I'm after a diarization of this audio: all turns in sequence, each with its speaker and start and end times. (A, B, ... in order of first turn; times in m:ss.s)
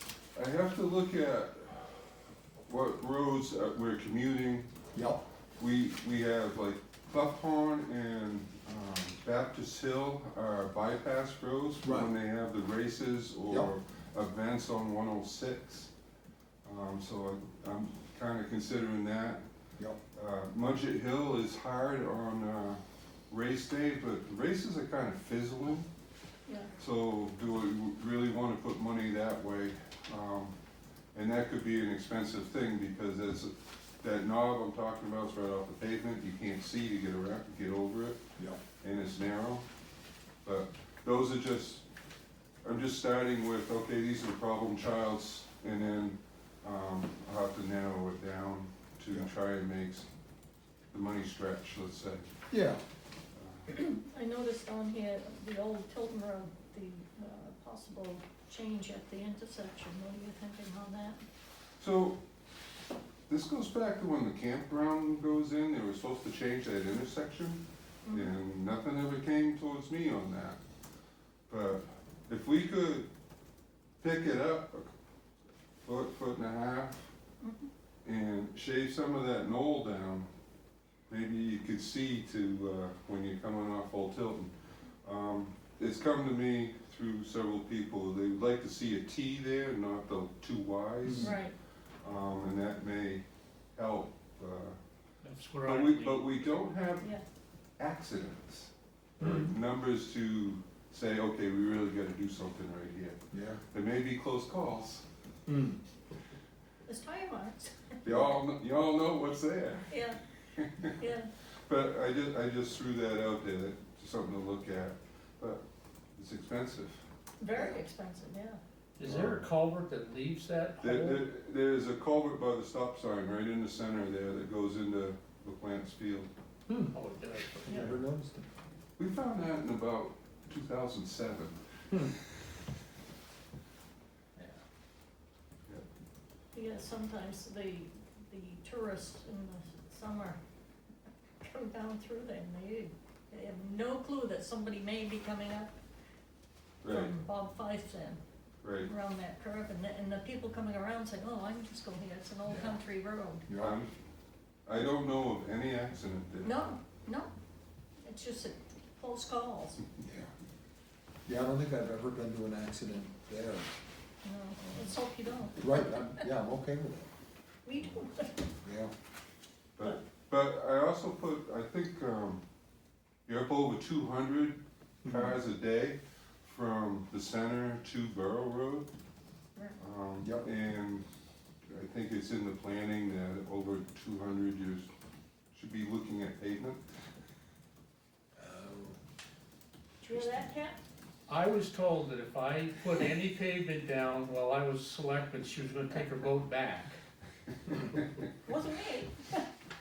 0:00.4-0:04.7 A
0:04.9-0:05.2 B
0:05.6-0:15.9 A
0:11.8-0:12.1 B
0:16.6-0:19.4 A
0:20.1-0:25.9 A
0:26.5-0:26.7 C
0:26.8-0:30.6 A
0:31.1-0:38.2 A
0:38.8-0:39.6 A
0:40.4-0:41.8 A
0:42.6-0:50.0 A
0:50.9-0:52.3 A
0:52.5-0:52.8 B
0:53.4-0:53.7 A
0:53.7-1:01.2 C
1:01.8-1:02.2 A
1:03.3-1:10.6 A
1:08.0-1:08.3 C
1:11.5-1:13.1 A
1:14.0-1:14.9 A
1:15.8-1:17.1 A
1:17.4-1:17.7 C
1:18.0-1:20.3 A
1:21.1-1:31.4 A
1:31.2-1:31.5 C
1:32.0-1:34.8 A
1:35.2-1:36.3 D
1:35.6-1:37.1 A
1:37.8-1:45.0 A
1:39.2-1:39.5 D
1:43.3-1:43.6 B
1:45.5-1:45.8 D
1:46.9-1:48.2 C
1:48.0-1:49.9 A
1:49.9-1:50.2 C
1:50.6-1:51.0 A
1:50.8-1:51.3 C
1:51.7-1:55.6 A
1:56.2-1:57.0 A
1:57.4-1:58.6 C
1:59.0-2:01.2 D
1:59.0-1:59.4 A
2:00.8-2:06.3 A
2:06.7-2:08.0 D
2:07.6-2:08.5 B
2:09.0-2:12.1 A
2:16.5-2:20.4 C
2:21.4-2:25.8 C
2:26.8-2:27.1 A
2:26.9-2:28.2 C
2:28.6-2:28.9 A
2:28.8-2:33.5 C
2:33.5-2:33.8 B
2:33.6-2:33.9 A
2:34.7-2:36.7 A
2:36.4-2:37.3 C
2:38.0-2:39.8 C
2:40.0-2:40.3 B
2:41.3-2:43.7 B
2:44.2-2:45.7 C
2:45.6-2:47.1 B
2:47.6-2:48.5 C
2:48.6-2:48.9 B
2:49.8-2:52.4 A
2:53.3-2:58.9 A
2:59.8-3:01.1 A
3:00.2-3:00.5 B
3:01.7-3:04.9 A
3:05.5-3:06.8 A
3:08.4-3:09.0 B
3:10.0-3:10.8 C
3:10.1-3:10.4 B
3:11.3-3:17.0 D
3:17.7-3:18.0 D
3:18.4-3:19.4 C